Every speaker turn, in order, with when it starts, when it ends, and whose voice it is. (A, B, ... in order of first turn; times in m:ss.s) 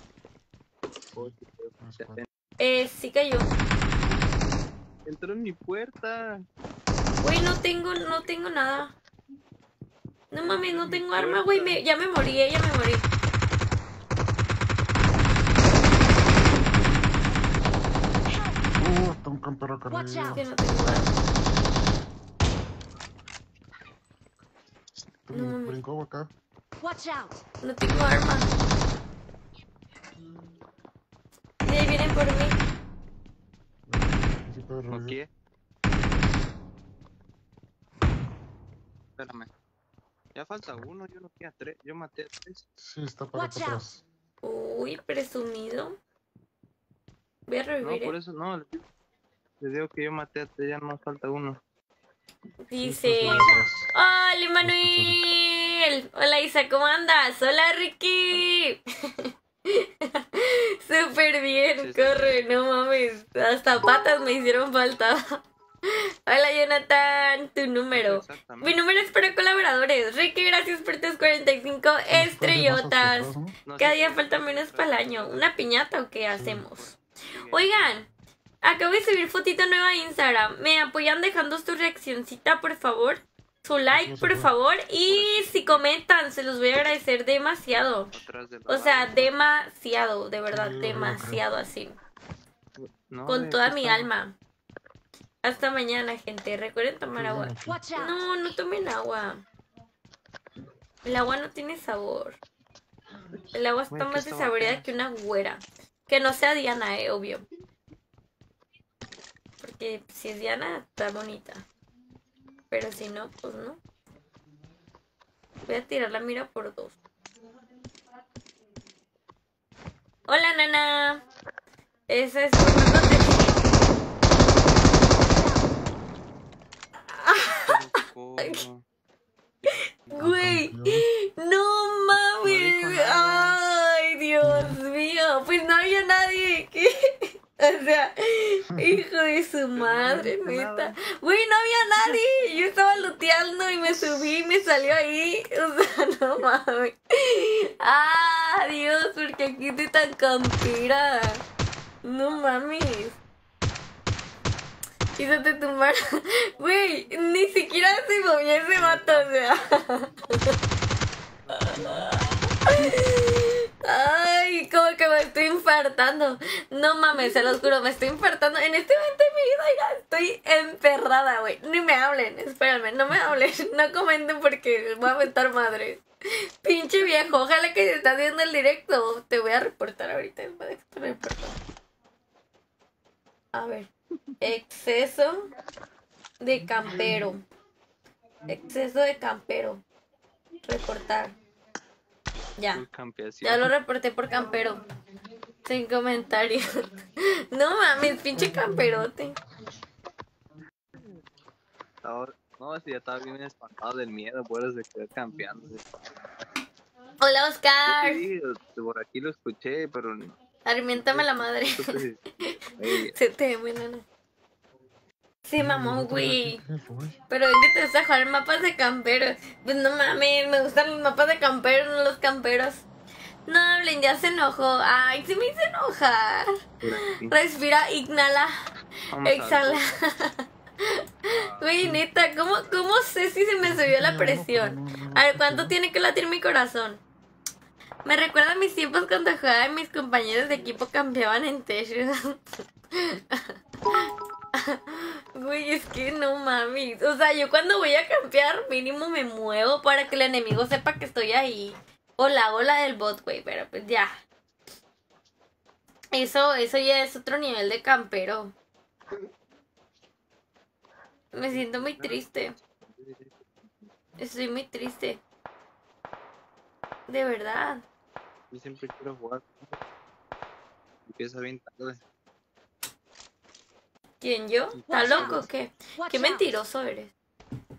0:01.1-0:02.2 A
0:01.2-0:02.3 B
0:02.6-0:03.5 C
0:05.0-0:06.4 B
0:07.2-0:09.0 C
0:10.3-0:13.0 C
0:10.5-0:11.7 B
0:18.3-0:18.6 D
0:18.8-0:20.5 A
0:19.9-0:20.4 D
0:20.4-0:21.1 C
0:25.0-0:26.3 A
0:25.3-0:25.8 C
0:26.8-0:27.4 D
0:27.6-0:28.5 C
0:31.6-0:32.6 C
0:33.9-0:35.2 A
0:34.9-0:35.3 B
0:39.2-0:39.5 B
0:40.4-0:42.6 B
0:42.8-0:44.0 A
0:43.3-0:44.0 D
0:44.4-0:46.0 C
0:47.5-0:48.1 C
0:47.8-0:48.8 B
0:49.6-0:51.6 B
0:52.7-1:17.0 C
0:52.8-0:53.9 A
0:53.2-0:53.8 D
0:54.6-0:55.2 A
1:01.8-1:02.6 B
1:07.9-1:08.8 B
1:12.1-1:13.6 A
1:13.6-1:15.7 B
1:16.4-1:17.7 B
1:17.5-1:18.1 C
1:18.6-1:28.1 C
1:23.9-1:24.5 A
1:25.1-1:25.8 B
1:28.1-1:29.4 B
1:28.7-1:32.0 C
1:30.5-1:31.5 A
1:32.8-1:34.1 B
1:33.3-1:34.4 C
1:35.4-1:39.4 C
1:37.1-1:37.9 A
1:37.6-1:38.2 D
1:41.0-1:42.4 C
1:43.5-1:47.4 C
1:43.9-1:45.0 B
1:49.6-1:51.7 C
1:52.7-1:53.8 C
1:55.7-1:57.0 C
2:00.3-2:01.2 C
2:02.1-2:03.6 C
2:07.2-2:07.6 C
2:07.5-2:08.8 B
2:09.7-2:31.4 C
2:10.2-2:11.1 A
2:12.4-2:13.6 B
2:14.4-2:14.8 A
2:19.7-2:21.0 B
2:22.0-2:23.2 B
2:32.0-2:33.2 C
2:35.2-2:40.5 C
2:41.6-3:01.6 C
3:03.5-3:03.9 C
3:04.4-3:05.5 C
3:06.4-3:07.4 C
3:08.5-3:09.8 C
3:10.6-3:11.4 C
3:12.6-3:12.8 C
3:12.7-3:13.7 B
3:13.4-3:14.8 C
3:15.6-3:16.8 C
3:17.5-3:19.4 C
3:22.0-3:25.9 B
3:27.2-3:28.2 C
3:27.9-3:30.4 B
3:30.6-3:34.0 C
3:30.9-3:32.2 B
3:32.8-3:33.1 B
3:35.4-3:36.6 C
3:35.6-3:37.2 A
3:37.3-3:42.8 C
3:43.5-3:48.5 C
3:46.8-3:47.4 B
3:49.1-3:50.0 B
3:49.2-3:51.0 C
3:51.3-3:51.7 B
3:51.6-3:57.0 C
3:53.6-3:55.8 A
3:58.1-4:14.1 C
4:16.1-4:18.5 C
4:21.3-4:22.6 C
4:21.5-4:23.5 B
4:24.2-4:25.2 C
4:27.1-4:27.8 C
4:28.5-4:29.8 B
4:31.1-4:32.0 B
4:34.2-4:37.1 C
4:34.8-4:35.5 B
4:34.9-4:36.5 D